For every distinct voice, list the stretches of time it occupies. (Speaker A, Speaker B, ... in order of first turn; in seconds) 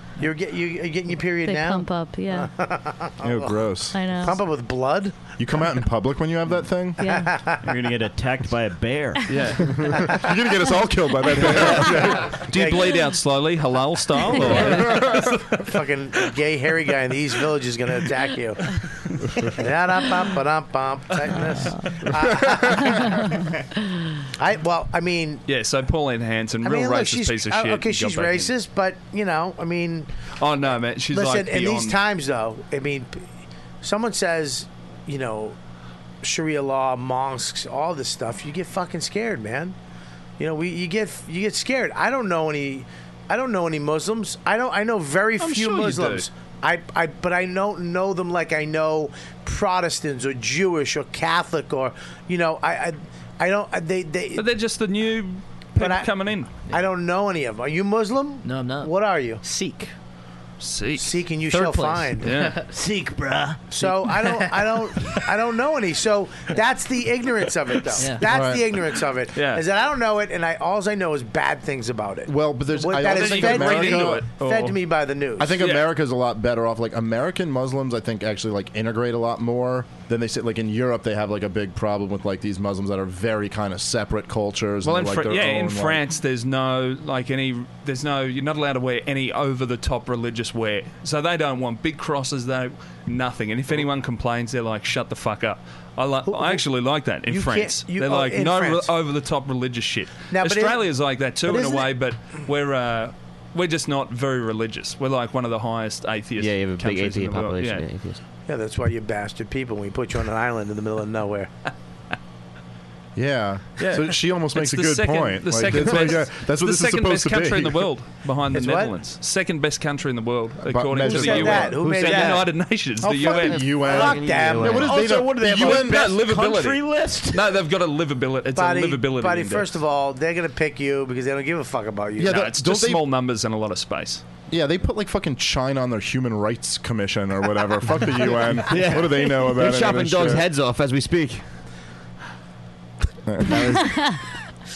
Speaker A: 0.2-3.6, 4.2-5.1, 7.0-7.7, 12.5-12.9, 15.5-18.8, 19.4-23.3, 24.3-25.4, 26.6-30.1, 31.1-33.2, 33.8-35.5, 36.2-39.8, 40.4-54.4, 55.8-56.1, 56.7-59.4, 61.0-62.3, 63.7-75.5, 96.2-96.6, 97.3-98.9, 100.3-100.8, 101.5-101.9, 108.5-111.5, 118.5-118.9, 121.0-122.5, 123.6-125.0, 128.5-132.4
Speaker B: 1.4-2.5, 3.9-4.4, 7.0-7.3, 14.5-14.7
Speaker C: 3.2-4.0, 5.4-7.0, 9.6-12.4, 14.4-15.5, 22.3-22.8, 68.2-68.6, 72.2-74.2, 75.4-86.0, 113.2-117.9, 120.7-122.1, 123.0-126.2, 132.2-133.0, 134.5-140.4, 143.2-144.1
Speaker D: 7.6-9.3, 62.7-63.6, 123.9-127.5
Speaker E: 9.3-9.9, 12.3-15.6, 25.5-28.5, 30.4-32.0, 45.4-46.2, 54.4-56.5, 60.6-61.6, 62.2-62.6, 69.3-69.6, 73.0-74.8, 75.6-75.8, 84.8-107.8, 113.8-123.7, 125.5-129.7, 132.2-134.2
Speaker F: 58.4-59.9, 61.5-62.7, 63.9-64.7, 68.0-68.2
Speaker G: 106.4-108.2, 123.6-125.0, 138.7-141.4